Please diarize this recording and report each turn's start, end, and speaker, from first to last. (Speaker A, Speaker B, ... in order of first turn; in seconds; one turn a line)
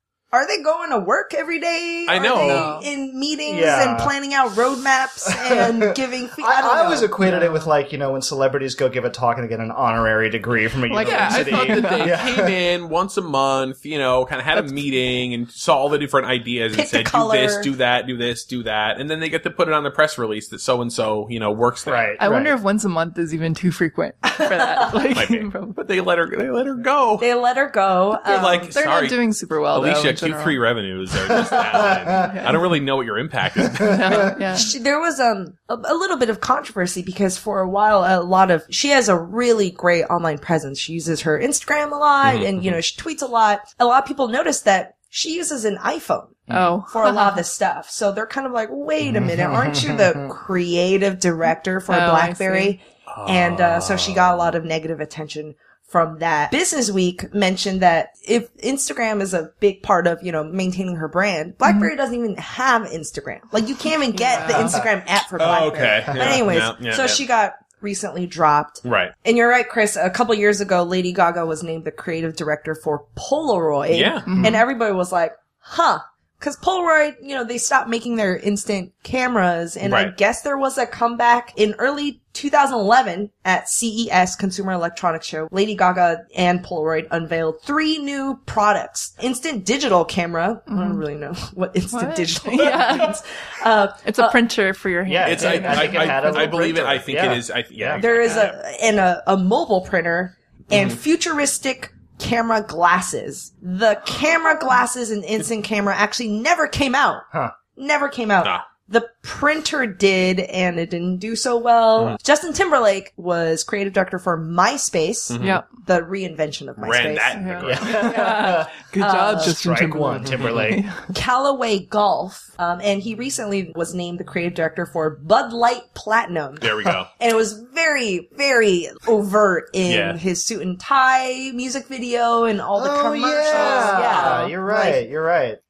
Speaker A: 0.3-7.1
Speaker B: 2.1-2.7
Speaker C: 2.2-2.9
Speaker D: 3.5-4.1
Speaker D: 5.2-12.6
Speaker C: 7.2-7.7
Speaker C: 10.9-12.2
Speaker B: 11.0-22.2
Speaker C: 14.5-14.9
Speaker A: 16.7-17.7
Speaker D: 21.8-22.6
Speaker C: 22.2-25.8
Speaker A: 24.4-24.9
Speaker B: 25.1-27.3
Speaker A: 27.2-28.8
Speaker B: 28.2-34.0
Speaker C: 28.7-30.7
Speaker D: 31.5-32.3
Speaker C: 31.5-32.7
Speaker D: 33.6-34.1
Speaker C: 33.9-34.7
Speaker A: 34.1-94.4
Speaker B: 42.2-42.8
Speaker D: 46.5-46.8
Speaker C: 46.5-47.4
Speaker D: 49.0-50.3
Speaker C: 51.9-52.8
Speaker B: 53.1-53.7
Speaker D: 53.5-54.5
Speaker C: 61.6-61.9
Speaker C: 64.1-64.8
Speaker D: 64.4-64.9
Speaker B: 65.4-67.2
Speaker D: 66.1-66.4
Speaker B: 68.8-69.1
Speaker B: 73.9-74.3
Speaker C: 74.2-74.6
Speaker D: 74.3-74.6
Speaker B: 79.8-80.1
Speaker C: 90.7-91.0
Speaker C: 91.9-93.2
Speaker C: 94.0-96.6
Speaker D: 95.0-98.1
Speaker B: 95.2-98.5
Speaker A: 98.0-118.3
Speaker B: 100.7-101.0
Speaker B: 115.3-115.6
Speaker C: 115.4-115.7
Speaker B: 116.8-117.8
Speaker C: 117.3-121.0
Speaker D: 117.6-118.7
Speaker A: 119.0-119.6
Speaker D: 119.4-120.8
Speaker A: 121.1-135.0
Speaker B: 126.6-127.1
Speaker B: 129.8-130.2
Speaker D: 132.7-135.6
Speaker C: 133.5-134.5